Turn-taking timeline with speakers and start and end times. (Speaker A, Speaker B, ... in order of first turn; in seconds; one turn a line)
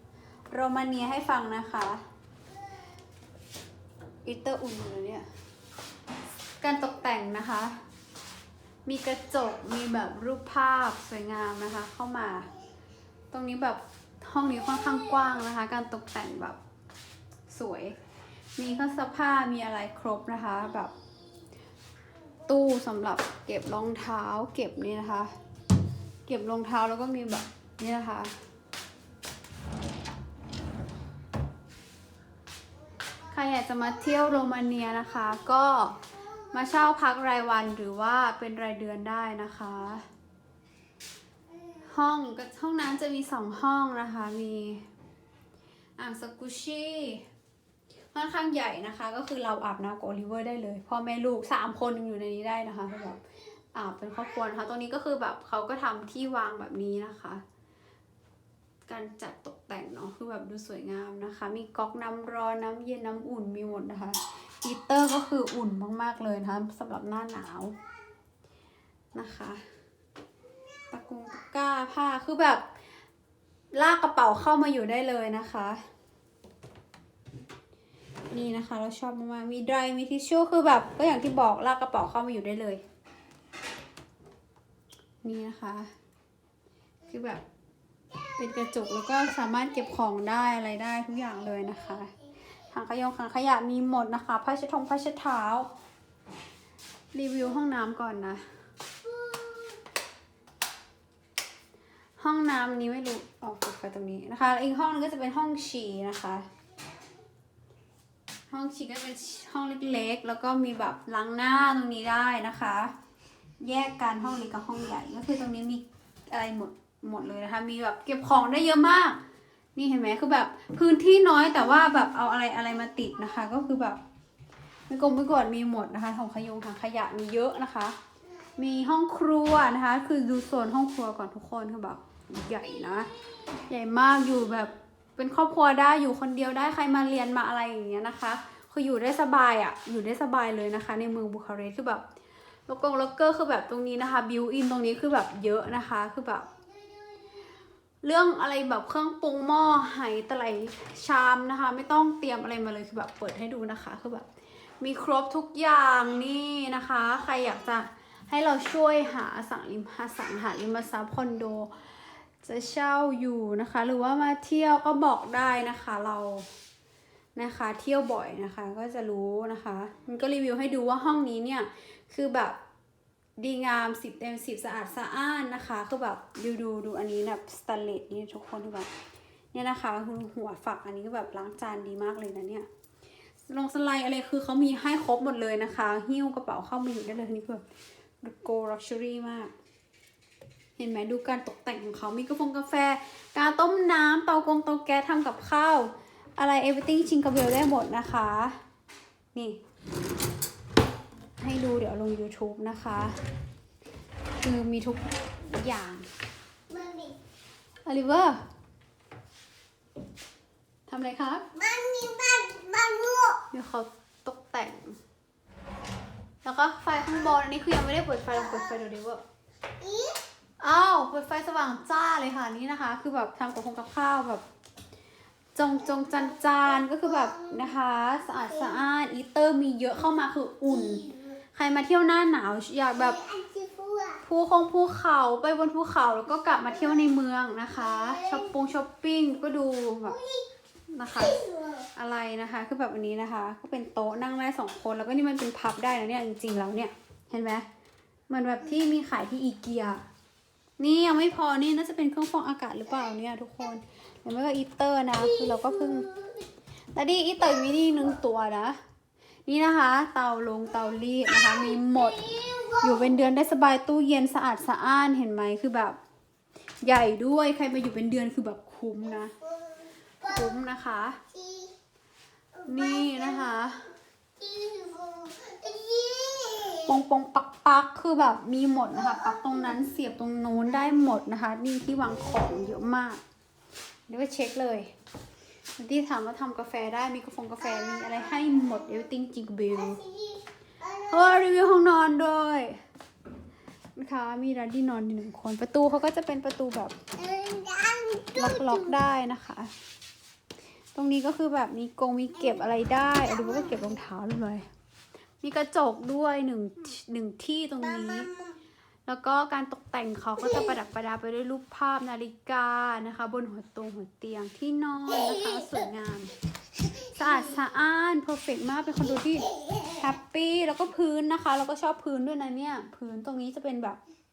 Speaker A: 0.5-2.0
Speaker A: 4.2-5.3
Speaker A: 6.6-7.8
Speaker A: 8.9-12.5
Speaker A: 13.3-16.6
Speaker A: 17.5-18.0
Speaker A: 18.6-20.9
Speaker A: 22.5-25.4
Speaker A: 26.3-28.3
Speaker A: 33.3-40.1
Speaker A: 41.9-44.9
Speaker A: 46.0-47.2
Speaker A: 48.1-53.2
Speaker A: 53.8-57.4
Speaker A: 58.9-67.8
Speaker A: 69.1-69.6
Speaker A: 70.9-72.6
Speaker A: 73.8-75.8
Speaker A: 78.3-82.8
Speaker A: 85.2-85.9
Speaker A: 87.1-87.4
Speaker A: 88.4-92.1
Speaker A: 92.7-95.7
Speaker A: 97.1-98.5
Speaker A: 102.2-106.5
Speaker A: 108.5-112.9
Speaker A: 113.6-119.2
Speaker A: 119.8-124.0
Speaker A: 124.9-128.0
Speaker A: 128.6-133.1
Speaker A: 133.7-142.0
Speaker A: 142.7-146.5
Speaker A: 148.0-154.3
Speaker A: 154.8-161.7
Speaker A: 162.4-166.5
Speaker A: 167.4-172.6
Speaker A: 173.4-178.9
Speaker A: 179.5-182.7
Speaker A: 183.5-187.6
Speaker A: 188.2-189.5
Speaker A: 190.8-198.6
Speaker A: 201.4-203.2
Speaker A: 204.4-206.1
Speaker B: 206.7-207.1
Speaker A: 207.9-208.4
Speaker A: 210.9-211.5
Speaker B: 211.6-213.4
Speaker A: 213.5-215.0
Speaker A: 216.4-219.2
Speaker B: 219.8-220.2
Speaker A: 220.6-224.4
Speaker A: 225.6-233.3
Speaker B: 233.2-234.2
Speaker A: 234.2-240.2
Speaker A: 240.9-247.7
Speaker A: 248.3-250.0
Speaker A: 250.8-256.2
Speaker A: 256.9-258.8
Speaker A: 259.5-266.0
Speaker B: 262.3-262.8
Speaker A: 266.8-269.3
Speaker A: 270.2-271.2
Speaker B: 271.4-271.7
Speaker A: 272.6-273.9
Speaker B: 274.4-276.8
Speaker A: 276.8-283.2
Speaker A: 284.1-284.9
Speaker A: 285.8-290.1
Speaker A: 290.9-292.8
Speaker A: 294.0-297.0
Speaker B: 297.2-298.4
Speaker A: 298.3-299.7
Speaker A: 300.9-304.7
Speaker A: 305.4-308.4
Speaker A: 309.1-316.4
Speaker A: 317.0-324.0